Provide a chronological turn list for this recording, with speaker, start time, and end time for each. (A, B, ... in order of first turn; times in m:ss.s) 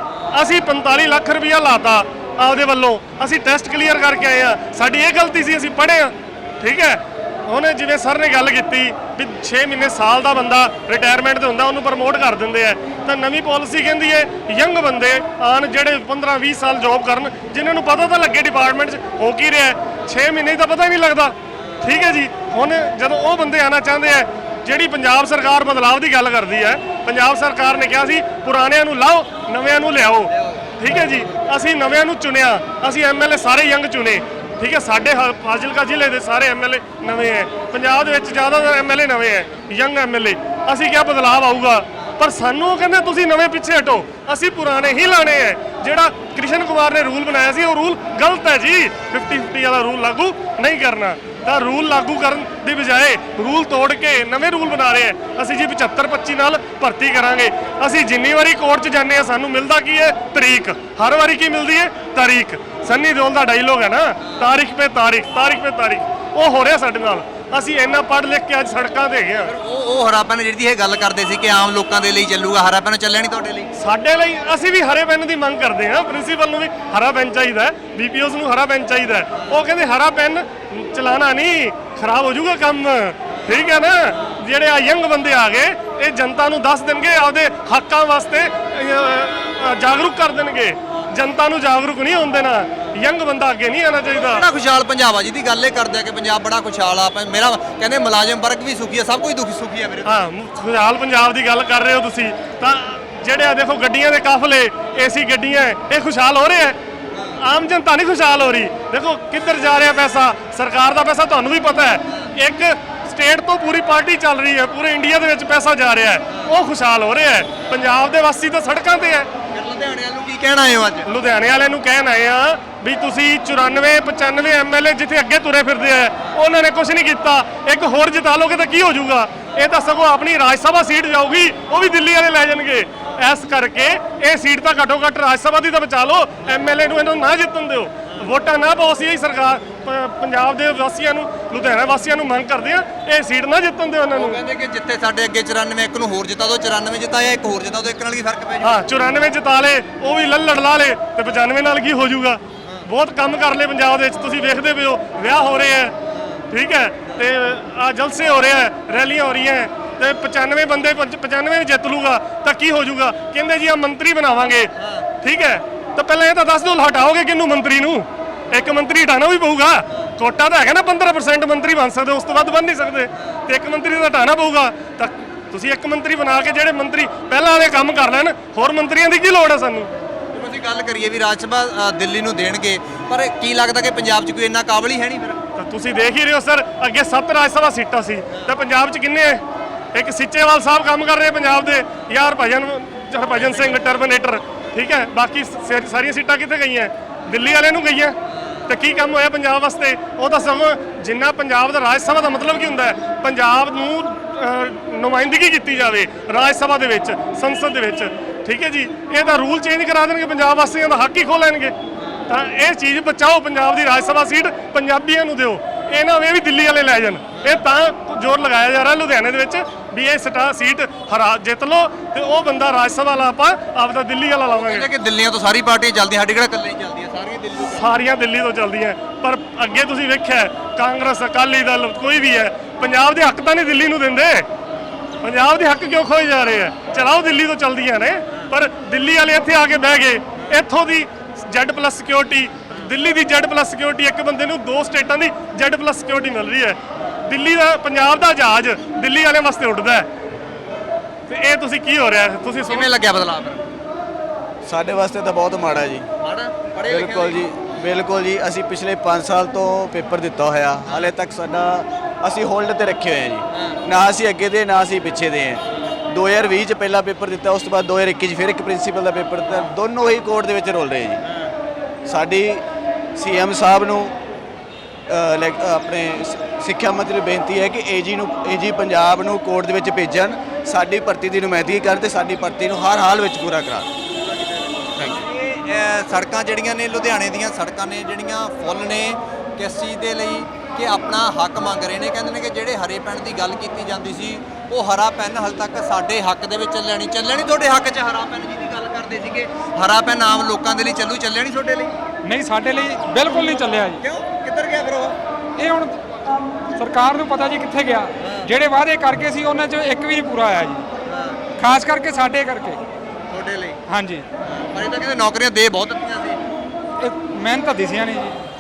0:00.3-1:09.5 A
1:09.4-1:13.7 B
1:13.8-1:34.4 A
1:34.1-1:40.2 B
1:40.0-1:46.8 A
1:47.4-1:59.3 A
1:59.5-2:01.1 B
2:01.1-2:24.4 A
2:24.1-2:28.8 B
2:28.6-2:36.0 A
2:36.1-2:36.4 B
2:36.5-2:59.9 A
3:00.3-3:05.4 B
3:05.6-3:09.4 A
3:09.9-3:18.2 A
3:13.4-3:13.8 B
3:18.7-3:31.7 A
3:32.3-3:44.9 A
3:37.4-3:37.6 B
3:44.5-3:47.9 B
3:47.7-3:54.4 A
3:55.2-4:10.1 A
4:11.3-4:12.9 A
4:12.7-4:13.7 B
4:14.7-4:16.1 C
4:16.2-4:17.4 B
4:16.9-4:31.2 C
4:20.9-4:21.1 B
4:23.5-4:23.8 B
4:32.1-4:32.6 C
4:33.2-4:34.1 C
4:35.1-4:43.9 C
4:44.3-5:01.9 B
5:02.2-5:04.0 D
5:04.0-5:05.2 B
5:05.6-5:10.9 D
5:08.2-5:08.5 B
5:11.1-5:11.4 B
5:11.6-5:12.8 D
5:13.3-5:13.8 B
5:13.9-5:14.3 D
5:14.7-5:16.4 B
5:17.0-5:18.4 D